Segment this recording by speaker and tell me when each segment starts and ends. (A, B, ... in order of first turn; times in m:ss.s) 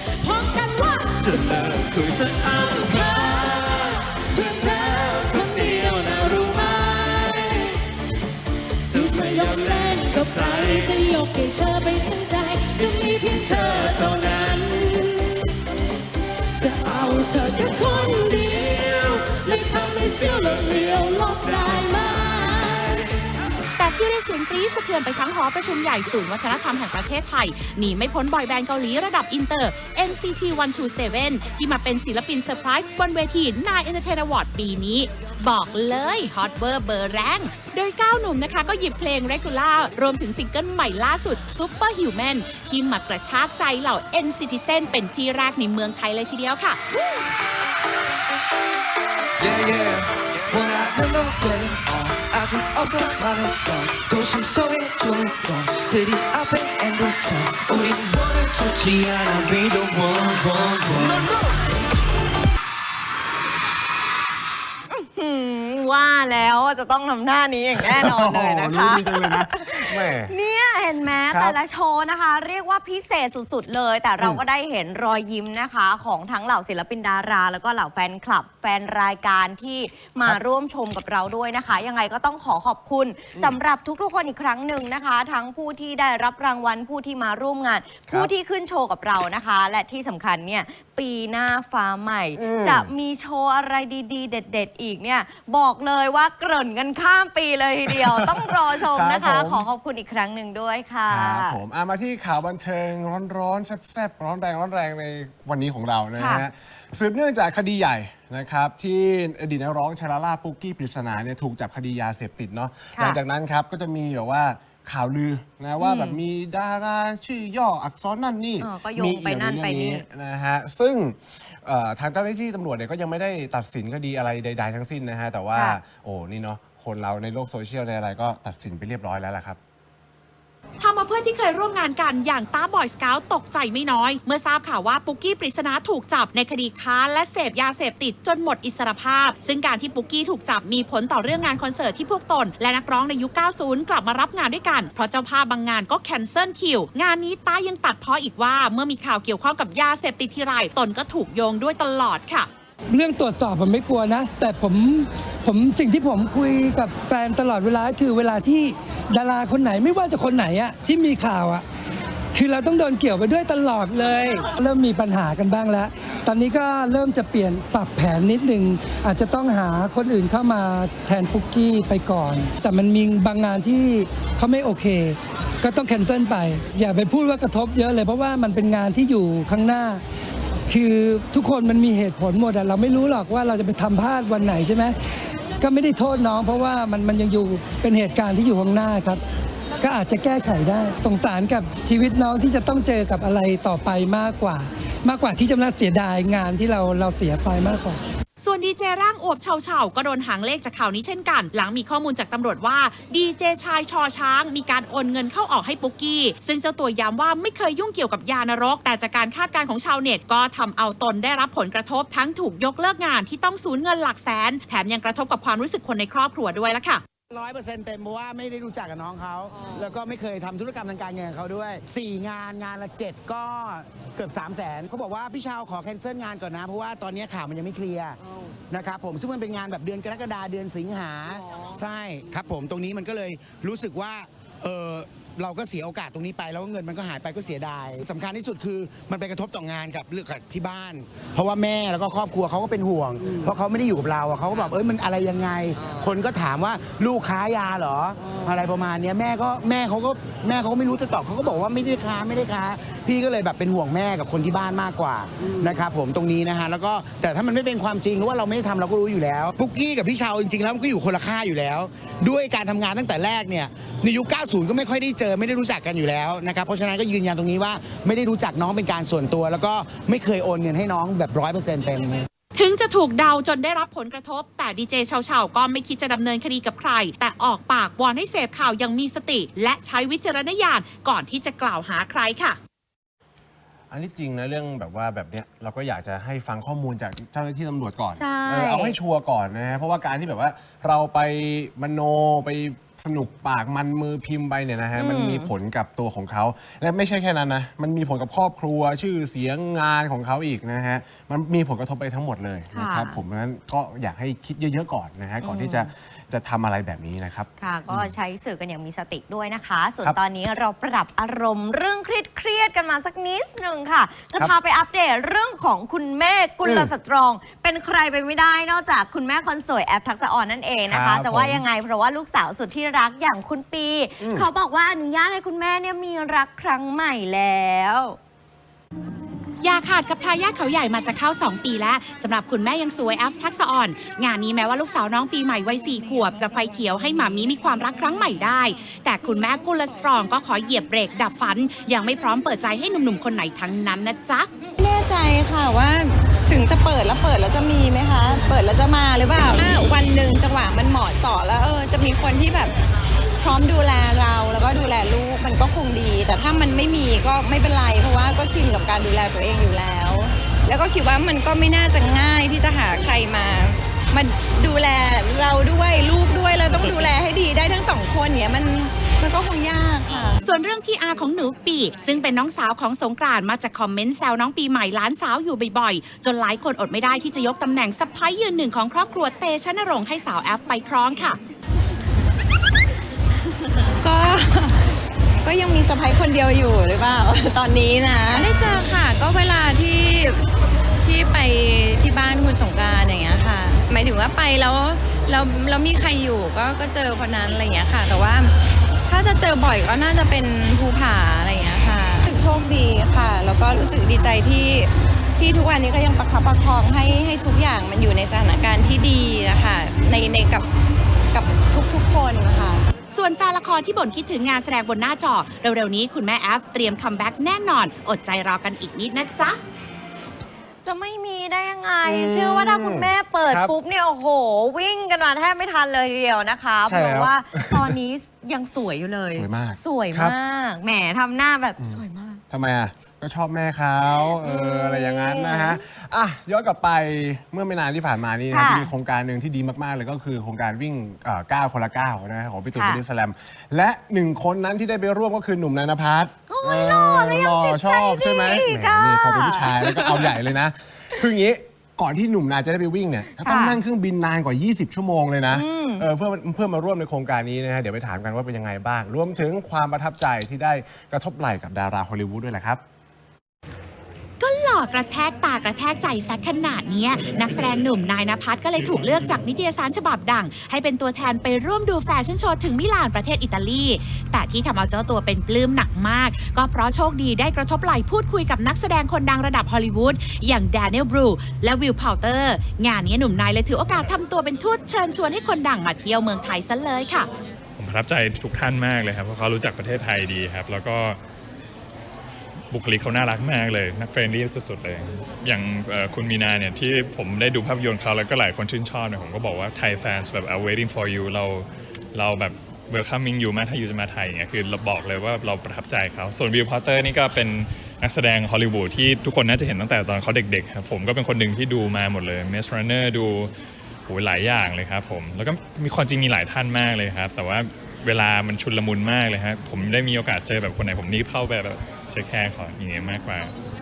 0:00.6-0:03.0 A
0:04.4-0:04.6 A
0:07.2-0:07.7 A
0:08.9-0:15.3 A
0:16.6-0:22.9 A
0:23.8-0:46.8 B
0:49.4-1:00.9 C
1:04.9-1:41.6 D
1:07.8-1:10.3 E
1:11.3-1:11.6 E
1:32.4-1:32.9 E
1:37.9-1:39.7 E
1:41.1-2:09.6 E
1:46.2-1:46.4 D
1:55.8-1:56.2 D
1:58.6-2:00.0 D
2:05.5-2:05.8 D
2:10.8-2:32.5 B
2:32.9-2:41.6 F
2:42.3-3:00.0 F
3:00.7-3:05.0 F
3:05.6-3:09.2 F
3:09.8-3:18.0 F
3:18.4-3:37.0 B
3:37.3-3:48.2 G
3:48.7-4:32.3 G
4:32.6-4:42.6 B
4:43.9-5:08.1 E
4:48.1-4:49.0 D
4:54.9-4:55.5 D
5:02.7-5:03.2 D
5:05.4-5:05.9 D
5:07.6-5:28.2 D
5:16.6-5:16.9 E
5:20.9-5:21.6 E
5:24.2-5:24.5 E
5:29.6-5:44.5 B
5:44.8-5:52.7 H
5:53.4-6:10.4 H
6:10.5-6:21.4 B
6:24.0-6:24.8 H
6:25.4-6:30.4 H
6:31.0-6:38.5 H
6:39.1-6:50.7 H
6:51.3-6:52.8 H
6:53.1-6:59.6 B
7:00.8-7:12.4 D
7:02.0-7:03.7 E
7:06.8-7:08.0 E
7:09.3-7:10.4 E
7:11.8-7:42.8 E
7:14.4-7:15.8 D
7:18.5-7:18.9 D
7:22.8-7:23.0 D
7:26.5-7:30.4 D
7:33.4-7:33.8 D
7:35.5-7:36.1 D
7:44.4-8:07.3 B
7:47.6-7:47.8 I
8:07.8-8:11.2 I
8:12.7-8:33.5 I
8:34.1-8:43.5 I